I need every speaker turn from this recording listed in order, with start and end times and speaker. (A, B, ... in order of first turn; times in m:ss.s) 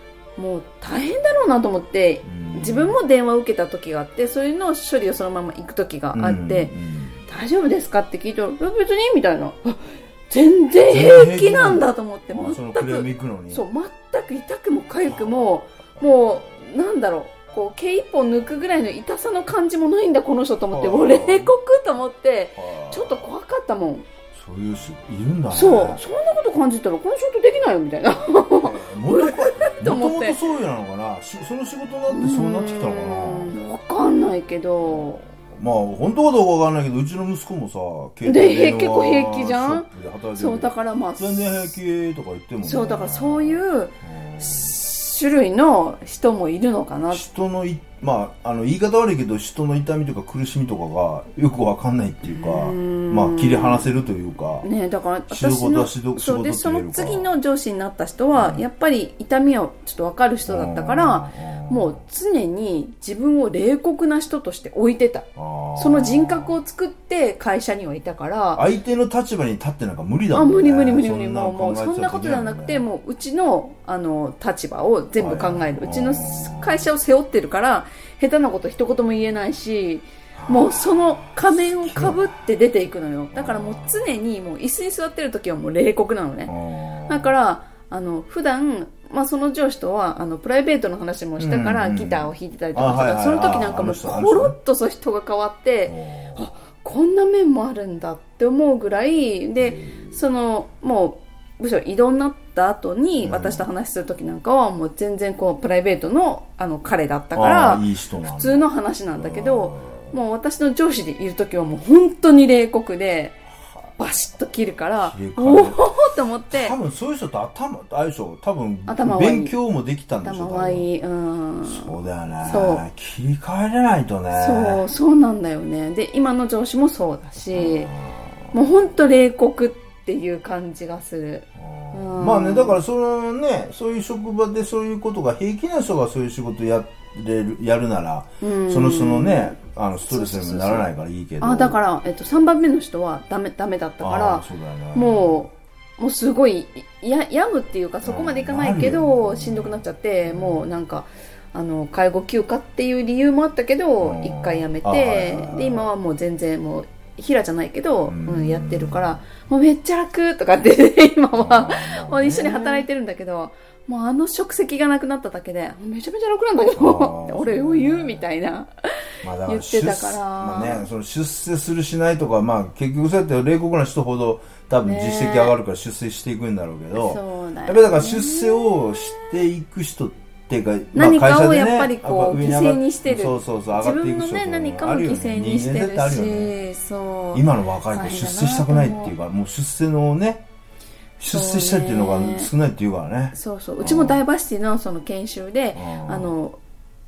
0:00.4-0:06.7 A
0:02.2-0:03.0 B
0:06.1-0:07.2 B
0:07.3-0:24.0 A
0:10.9-0:13.6 B
0:15.0-0:16.1 B
0:20.7-0:21.5 B
0:22.6-0:23.3 B
0:24.3-0:26.0 B
0:25.5-0:30.4 A
0:28.6-0:33.5 B
0:32.1-0:35.2 A
0:34.9-0:44.8 B
0:38.2-0:41.7 A
0:42.6-0:47.2 A
0:47.1-0:54.7 B
0:52.2-0:53.9 A
0:54.6-1:08.6 A
0:55.3-0:57.3 B
0:58.3-0:58.6 B
1:00.4-1:02.0 B
1:05.4-1:06.6 B
1:08.5-1:12.9 B
1:10.3-1:26.5 A
1:15.2-1:16.8 B
1:20.3-1:22.4 B
1:23.3-1:24.1 B
1:26.5-1:27.3 B
1:27.1-1:53.4 A
1:31.4-1:34.5 B
1:35.9-1:36.4 B
1:39.6-1:40.2 B
1:43.2-1:43.6 B
1:47.3-1:50.1 B
1:54.0-1:56.8 A
1:55.0-1:55.8 B
1:56.5-2:00.9 B
1:58.9-1:59.5 A
2:00.2-2:02.8 A
2:01.6-2:04.8 B
2:04.3-2:07.9 A
2:07.5-2:08.5 B
2:08.5-2:12.8 A
2:11.6-2:21.8 B
2:18.4-2:20.9 A
2:21.4-2:48.7 A
2:24.0-2:25.4 B
2:28.0-2:30.7 B
2:34.0-2:35.9 B
2:38.1-2:39.2 B
2:41.3-2:42.8 B
2:46.8-2:48.3 B
2:49.2-3:06.5 B
2:49.4-2:50.9 A
2:54.8-2:55.5 A
2:56.9-2:59.3 A
3:00.9-3:09.1 A
3:07.3-3:10.4 B
3:11.2-3:14.2 B
3:11.3-3:12.5 A
3:13.3-3:16.6 A
3:15.8-3:16.3 B